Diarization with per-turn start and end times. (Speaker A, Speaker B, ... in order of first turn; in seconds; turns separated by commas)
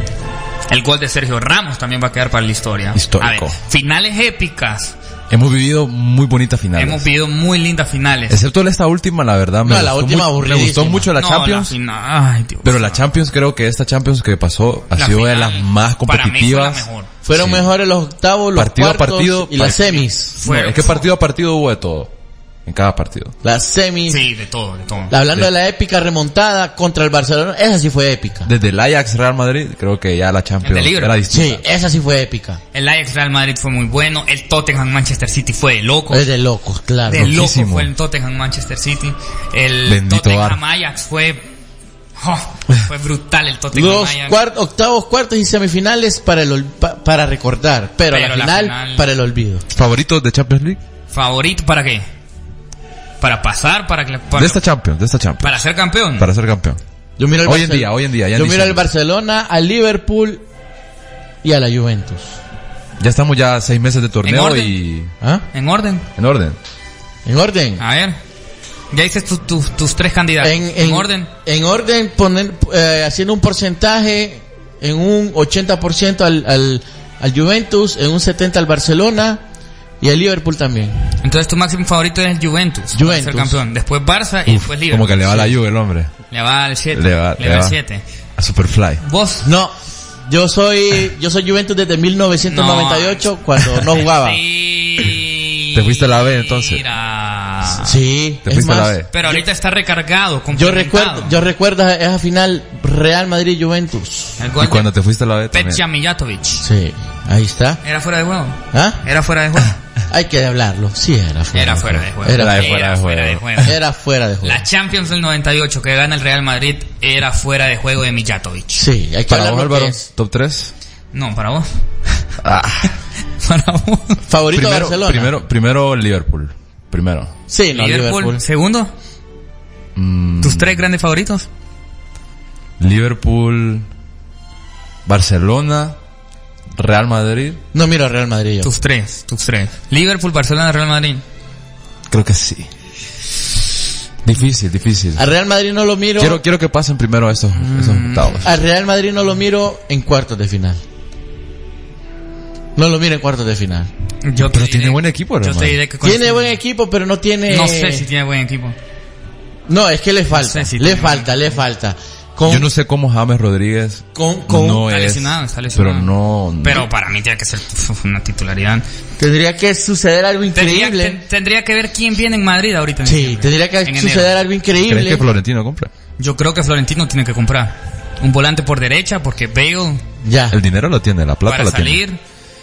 Speaker A: 0.7-4.9, Speaker B: 2.9-3.6, Speaker B: 5.3-7.0, Speaker A: 6.8-8.4, Speaker B: 8.3-11.7, Speaker C: 9.6-11.1, Speaker A: 11.2-13.0, Speaker B: 12.6-17.6, Speaker A: 14.9-17.1, Speaker C: 17.3-20.4, Speaker B: 18.6-22.1, Speaker A: 20.4-21.1, Speaker B: 22.6-23.3, Speaker C: 23.4-24.3, Speaker A: 24.1-25.1, Speaker C: 25.1-28.5, Speaker B: 28.5-31.6, Speaker A: 30.6-31.1, Speaker C: 31.3-32.6, Speaker A: 32.7-36.2, Speaker C: 36.1-37.3, Speaker A: 37.1-41.5, Speaker B: 37.1-37.9, Speaker B: 39.9-40.6, Speaker A: 42.2-44.4, Speaker C: 43.7-49.6, Speaker A: 48.1-49.1, Speaker B: 49.7-50.8, Speaker A: 51.1-52.0, Speaker A: 53.2-54.6, Speaker B: 54.4-55.6, Speaker A: 55.4-56.3, Speaker B: 56.2-56.8, Speaker C: 57.2-60.4, Speaker B: 57.4-58.8, Speaker C: 61.4-62.4, Speaker B: 63.0-65.1, Speaker A: 64.2-64.8, Speaker A: 65.5-66.0, Speaker B: 66.2-66.6, Speaker C: 67.2-67.8, Speaker A: 67.8-68.1, Speaker A: 68.9-71.3, Speaker C: 70.4-79.4, Speaker C: 80.0-80.9, Speaker A: 81.2-85.4, Speaker C: 82.9-83.6, Speaker B: 84.5-86.1, Speaker A: 86.3-88.0, Speaker B: 86.9-87.8, Speaker B: 88.4-89.0, Speaker A: 89.0-89.5, Speaker C: 89.4-89.7, Speaker C: 90.3-94.4, Speaker A: 92.5-97.9, Speaker B: 95.8-96.8, Speaker C: 97.8-99.0, Speaker B: 98.5-99.1, Speaker A: 99.1-101.4, Speaker C: 100.5-104.4, Speaker A: 104.4-104.9, Speaker B: 104.6-105.8, Speaker A: 105.5-106.6, Speaker C: 106.6-107.8, Speaker A: 107.8-109.8, Speaker C: 108.7-109.0, Speaker C: 110.1-112.8, Speaker A: 111.5-113.8, Speaker B: 112.3-113.6, Speaker C: 113.6-114.6, Speaker A: 114.4-118.9, Speaker C: 118.8-120.0, Speaker B: 119.3-120.7, Speaker A: 121.1-121.7, Speaker B: 122.4-122.9, Speaker A: 123.4-124.2, Speaker C: 124.3-125.3, Speaker B: 124.5-127.3, Speaker C: 127.5-128.4, Speaker A: 127.7-128.9, Speaker B: 130.0-130.8, Speaker A: 130.4-131.5, Speaker B: 132.8-133.9, Speaker B: 135.1-136.0, Speaker B: 136.8-137.6, Speaker C: 137.7-138.7, Speaker A: 138.6-141.2, Speaker B: 142.1-142.7, Speaker B: 144.2-145.2, Speaker C: 145.2-146.4, Speaker B: 146.2-148.5, Speaker A: 147.5-148.4, Speaker C: 148.4-150.8, Speaker C: 152.8-153.9, Speaker A: 154.2-156.6, Speaker B: 154.5-155.8, Speaker C: 156.0-158.1, Speaker A: 157.5-158.8, Speaker C: 159.7-162.7, Speaker A: 160.3-161.4, Speaker B: 162.5-166.9, Speaker C: 164.2-164.9, Speaker A: 164.8-168.8, Speaker C: 169.2-171.2, Speaker A: 170.5-174.3, Speaker C: 173.1-175.2, Speaker B: 174.8-175.9, Speaker A: 176.2-180.0, Speaker C: 180.2-180.6, Speaker B: 180.5-182.0, Speaker A: 181.5-182.2